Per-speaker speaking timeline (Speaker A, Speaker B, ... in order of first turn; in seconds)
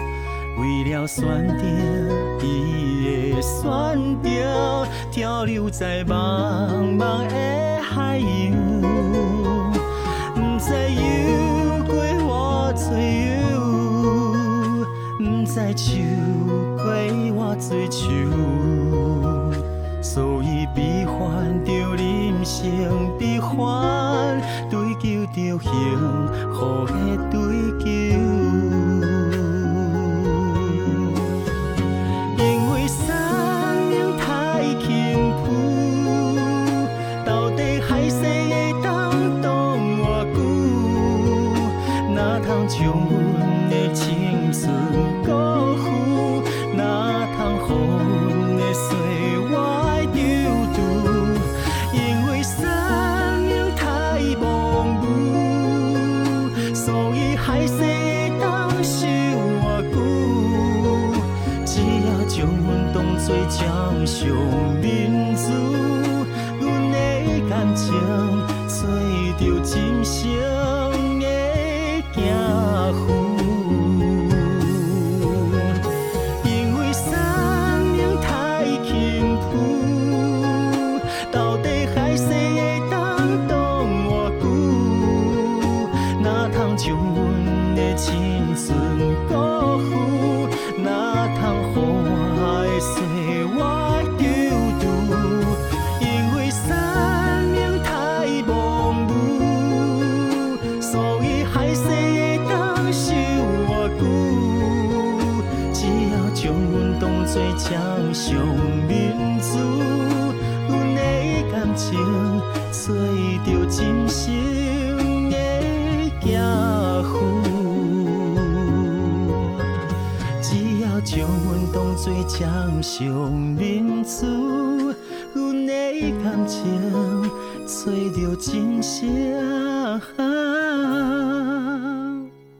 Speaker A: 0.5-31.4, 32.3-75.8, 76.4-119.7, 120.4-132.3